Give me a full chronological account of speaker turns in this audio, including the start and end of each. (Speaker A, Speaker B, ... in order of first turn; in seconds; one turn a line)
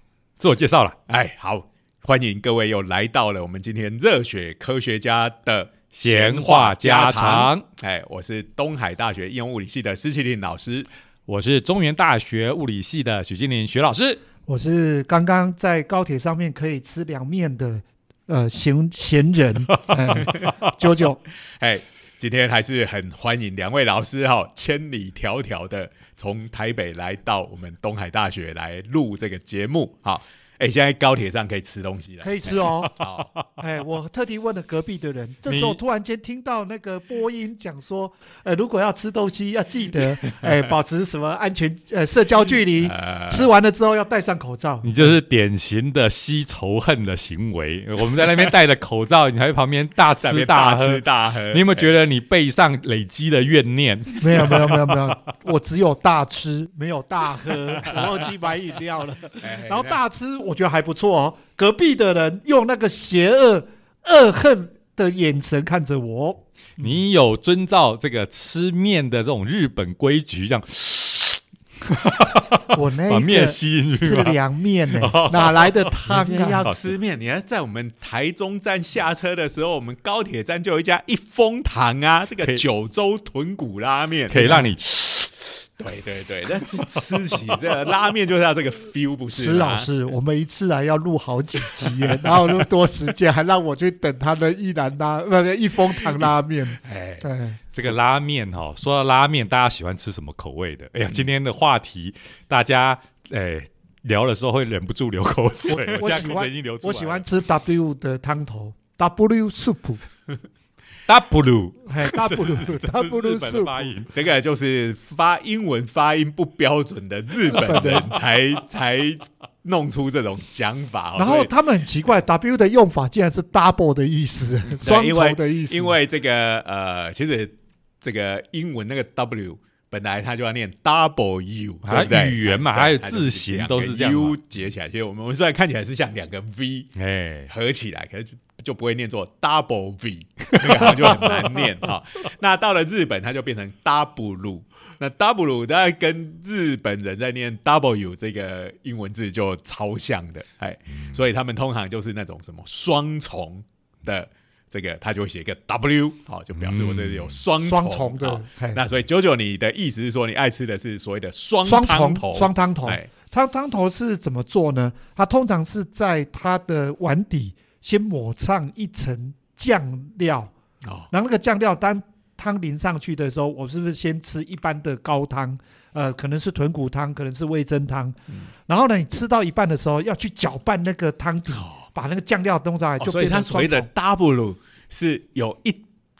Speaker A: 0.4-1.0
Speaker B: 1.1-10.9
Speaker A: 6.0-7.7
Speaker A: 11.3-14.2
Speaker C: 14.5-21.2
Speaker B: 20.2-20.5
Speaker B: 21.5-33.3
Speaker C: 32.2-33.0
Speaker C: 33.6-45.1
Speaker A: 35.5-35.8
Speaker B: 42.8-43.5
Speaker A: 44.8-55.1
Speaker B: 50.2-51.9
Speaker C: 54.2-66.4
Speaker B: 59.4-60.0
Speaker A: 66.8-74.4
Speaker C: 72.7-76.6
Speaker A: 74.9-76.1
Speaker B: 76.0-84.7
Speaker A: 84.3-85.3
Speaker B: 85.8-89.9
Speaker C: 89.3-97.6
Speaker B: 91.8-92.4
Speaker B: 96.8-97.3
Speaker A: 97.7-107.2
Speaker C: 105.7-110.0
Speaker A: 111.1-114.1
Speaker C: 111.9-114.0
Speaker B: 114.1-121.5
Speaker C: 117.5-118.1
Speaker C: 121.2-126.0
Speaker B: 124.7-136.9
Speaker A: 131.9-134.4
Speaker A: 137.0-137.5
Speaker B: 137.5-163.1
Speaker A: 140.7-141.0
Speaker A: 156.6-157.4
Speaker C: 157.6-158.8
Speaker C: 161.6-170.5
Speaker B: 170.8-171.1
Speaker C: 171.1-183.9
Speaker B: 181.5-181.8
Speaker B: 183.0-185.8